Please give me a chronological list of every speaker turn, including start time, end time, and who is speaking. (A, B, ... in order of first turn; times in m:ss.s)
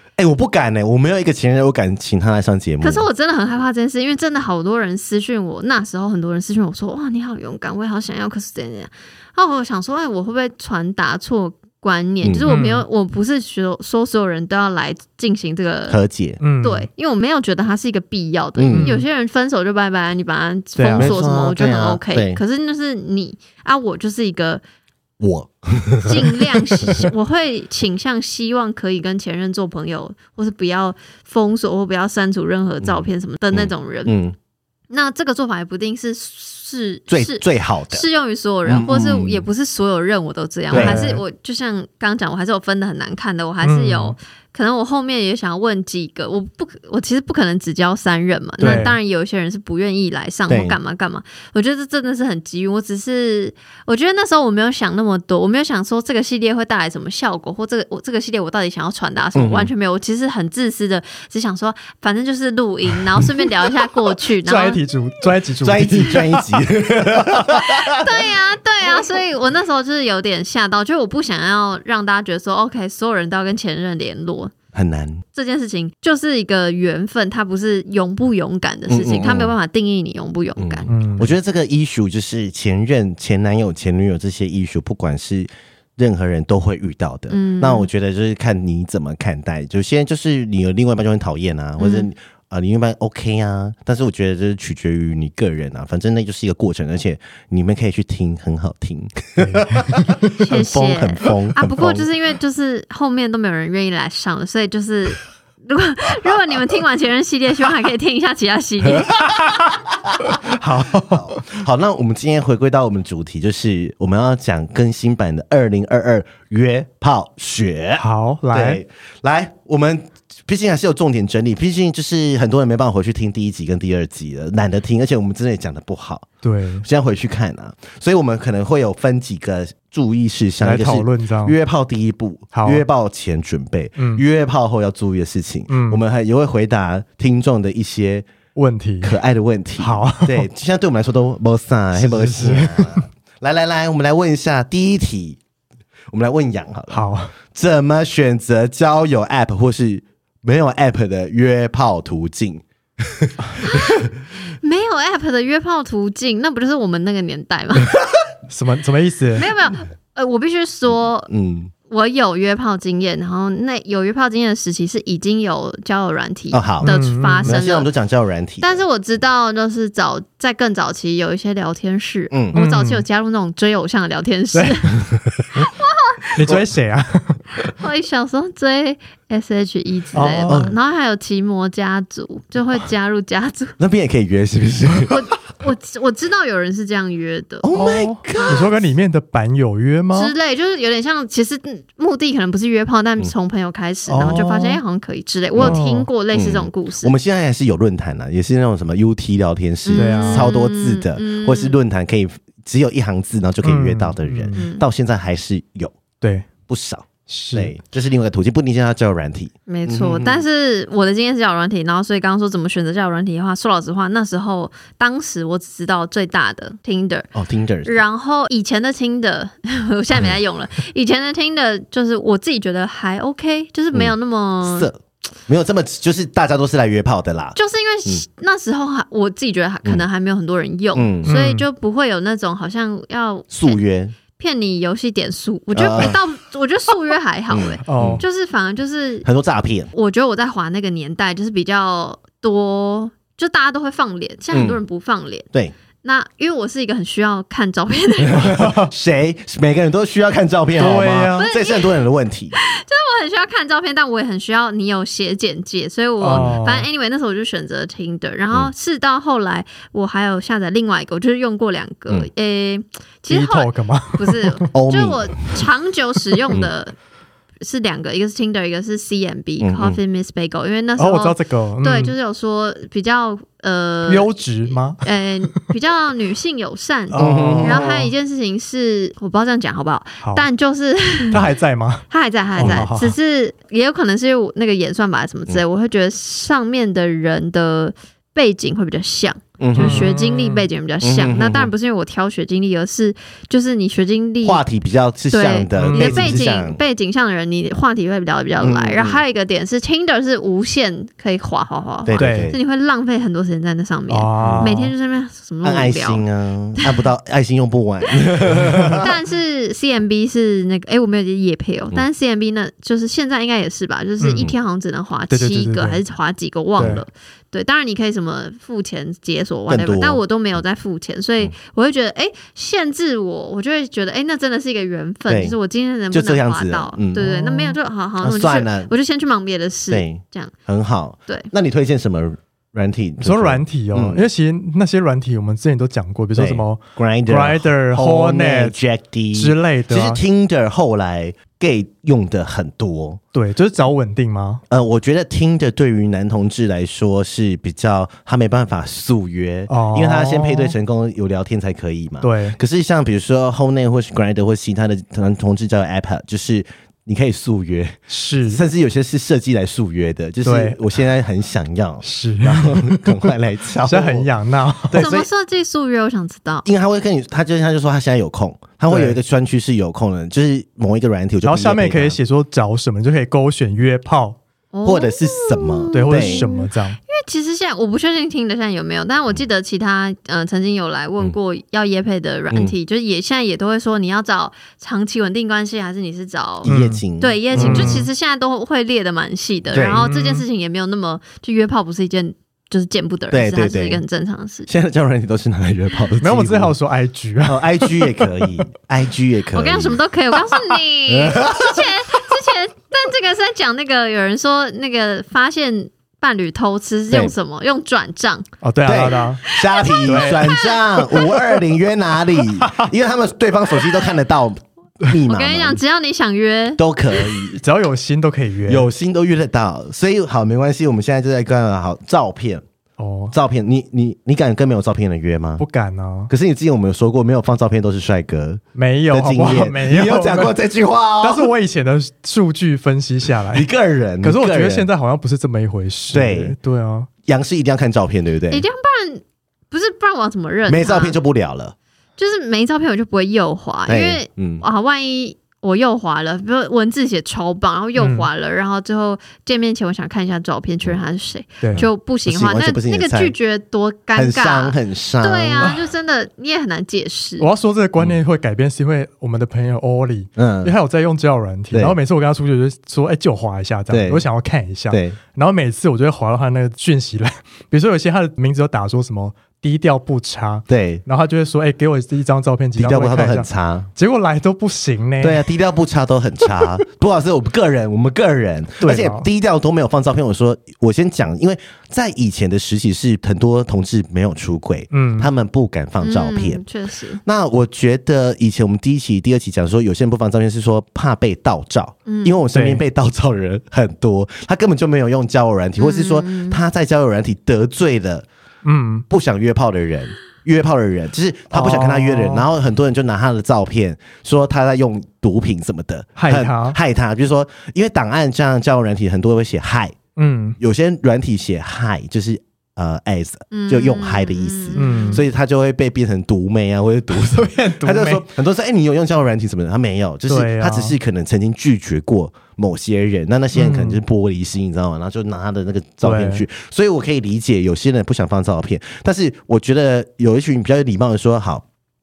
0:00.2-0:03.1 A
0:02.8-0:16.0 B
0:12.2-0:12.5 A
0:12.5-0:12.8 C
0:15.9-0:16.4 A
0:16.4-0:16.9 C
0:16.6-0:24.6 B
0:18.6-0:18.9 A
0:18.7-0:19.0 C
0:20.8-0:21.1 C
0:21.0-0:22.4 A
0:25.2-0:27.1 A
0:26.0-0:34.2 B
0:32.8-0:34.4 A
0:34.9-1:04.8 B
0:37.1-0:38.1 A
0:38.6-0:39.5 A
0:40.7-0:41.0 A
0:40.7-0:41.2 C
0:43.6-0:44.2 C
0:48.6-0:48.9 A
0:48.6-0:49.0 C
0:50.5-0:50.8 A
0:59.4-0:59.7 A
1:04.4-1:06.5 C
1:05.6-1:08.2 A
1:07.7-1:14.5 B
1:14.7-1:15.2 A
1:15.4-1:20.9 B
1:18.9-1:19.6 A
1:20.6-1:42.1 A
1:20.9-1:21.3 C
1:27.3-1:27.9 B
1:31.8-1:32.1 B
1:39.4-1:40.2 C
1:40.4-1:49.4 B
1:50.5-1:51.5 C
1:50.9-2:06.3 A
1:58.0-1:58.8 C
2:06.4-2:06.8 C
2:06.8-2:18.3 A
2:10.6-2:11.6 C
2:12.5-2:12.8 C
2:14.0-2:14.2 C
2:15.7-2:16.0 C
2:18.6-2:19.2 C
2:19.0-2:25.4 A
2:19.8-2:20.5 C
2:22.0-2:23.1 C
2:26.1-2:34.1 A
2:26.9-2:27.3 C
2:33.6-2:37.9 B
2:38.5-2:39.5 C
2:39.4-2:41.3 B
2:40.9-2:41.7 A
2:41.9-2:47.9 B
2:46.5-2:46.9 A
2:46.8-2:47.6 C
2:47.4-2:48.8 A
2:48.6-2:55.0 B
2:52.3-2:52.6 A
2:52.5-2:53.0 C
2:54.5-2:54.9 C
2:55.6-2:56.3 B
2:56.4-2:57.4 C
2:57.7-3:03.8 B
3:00.1-3:00.7 C
3:00.5-3:00.8 A
3:03.8-3:05.3 A
3:05.1-3:07.8 B
3:07.6-3:08.7 A
3:07.7-3:10.3 C
3:08.4-3:08.7 B
3:10.2-3:17.1 B
3:14.1-3:14.8 C
3:15.6-3:16.1 C
3:16.3-3:26.0 A
3:19.8-3:21.8 B
3:20.0-3:20.5 C
3:23.6-3:24.6 C
3:24.6-3:24.8 B
3:26.2-3:26.5 C
3:26.7-3:30.4 A
3:27.3-3:27.8 C
3:29.7-3:37.3 B
3:37.4-3:38.0 A
3:37.8-3:44.9 B
3:43.9-3:48.2 A
3:47.6-3:53.8 B
3:50.9-3:51.3 A
3:51.2-3:51.7 C
3:53.5-3:54.2 A
3:54.4-3:59.3 B
3:55.7-3:56.2 A
3:57.5-3:58.2 A
3:57.8-3:58.2 C
3:59.2-3:59.9 A
3:59.9-4:05.5 B
4:04.5-4:04.8 A
4:06.0-4:08.6 B
4:08.2-4:12.6 A
4:08.4-4:08.9 C
4:10.8-4:11.5 C
4:11.4-4:26.9 B
4:16.2-4:16.9 C
4:23.3-4:24.7 C
4:24.7-4:25.7 A
4:27.6-4:34.3 B
4:29.6-4:30.0 A
4:31.0-4:32.2 C
4:34.1-4:35.0 C
4:35.0-4:41.5 B
4:37.1-4:38.1 C
4:37.2-4:38.0 A
4:40.2-4:40.5 C
4:41.3-4:43.2 C
4:42.1-4:54.6 B
4:42.6-4:42.9 A
4:49.6-4:50.1 A
4:49.8-4:50.7 C
4:51.0-4:51.7 A
4:54.4-4:56.8 A
4:55.3-5:06.2 B
4:55.8-4:56.4 C
4:58.6-4:59.2 A
5:02.1-5:02.6 A
5:02.2-5:02.5 C
5:04.1-5:04.9 C
5:04.4-5:04.7 A
5:05.6-5:09.1 A
5:06.8-5:07.1 B
5:08.1-5:08.4 B
5:08.5-5:09.0 C
5:09.0-5:30.5 B
5:14.2-5:14.5 C
5:15.3-5:16.0 C
5:16.8-5:17.0 C
5:19.7-5:20.2 A
5:25.3-5:25.6 A
5:26.1-5:27.3 A
5:27.2-5:27.8 C
5:28.2-5:28.9 A
5:29.9-5:34.2 A
5:33.2-5:38.8 C
5:36.4-5:43.2 A
5:39.3-5:40.2 C
5:43.3-5:44.6 C
5:44.7-6:04.3 A
5:49.7-5:50.8 C
5:52.2-5:52.6 C
5:58.1-5:58.6 C
6:00.4-6:00.8 C
6:02.0-6:03.3 C
6:03.8-6:05.1 C
6:04.9-6:05.3 A
6:05.0-6:06.6 B
6:06.6-6:12.2 A
6:08.9-6:09.2 C
6:11.4-6:14.4 C
6:14.7-6:34.7 B
6:14.8-6:16.4 A
6:15.9-6:17.0 C
6:26.6-6:28.1 A
6:26.7-6:27.0 C
6:27.5-6:28.1 C
6:29.7-6:30.1 A
6:30.0-6:30.4 C
6:33.3-6:34.0 A
6:34.7-6:36.8 A
6:36.2-6:38.6 C
6:37.4-6:40.0 A
6:39.5-6:48.5 B
6:41.1-6:42.0 A
6:48.6-6:49.4 C
6:48.8-6:55.8 A
6:49.5-6:51.4 B
6:50.0-6:50.5 C
6:52.6-6:52.9 C
6:55.3-6:56.8 B
6:56.8-6:57.6 A
6:57.5-6:58.9 C
6:58.7-7:02.6 A
7:03.0-7:03.3 C
7:03.3-7:05.6 A
7:05.6-7:06.3 C
7:06.3-7:11.5 A
7:08.8-7:10.6 C
7:11.2-7:13.7 C
7:13.5-7:14.9 A
7:14.2-7:17.1 C
7:16.1-7:16.6 A
7:17.3-7:18.7 A
7:18.5-7:21.2 B
7:20.7-7:21.8 A
7:22.2-7:37.5 B
7:23.9-7:24.6 A
7:28.0-7:28.3 C
7:31.6-7:31.9 C
7:31.7-7:33.3 A
7:34.1-7:35.8 A
7:37.4-7:55.5 C
7:40.4-7:40.7 A
7:43.9-7:44.2 A
7:44.9-7:45.2 A
7:50.7-7:51.0 A
7:52.8-7:53.9 A
7:55.2-8:06.6 A
7:58.8-7:59.3 C
8:04.9-8:05.3 C
8:06.0-8:07.2 B
8:07.2-8:18.3 A
8:12.1-8:12.4 B
8:12.5-8:12.8 C
8:15.8-8:16.6 B
8:18.6-8:19.0 C
8:19.1-8:30.0 A
8:21.5-8:22.5 C
8:26.2-8:26.8 C
8:30.2-8:30.6 C
8:30.6-8:51.6 A
8:33.5-8:35.2 B
8:34.8-8:35.2 C
8:37.2-8:38.3 C
8:40.3-8:41.0 C
8:43.5-8:44.0 C
8:46.0-8:46.4 C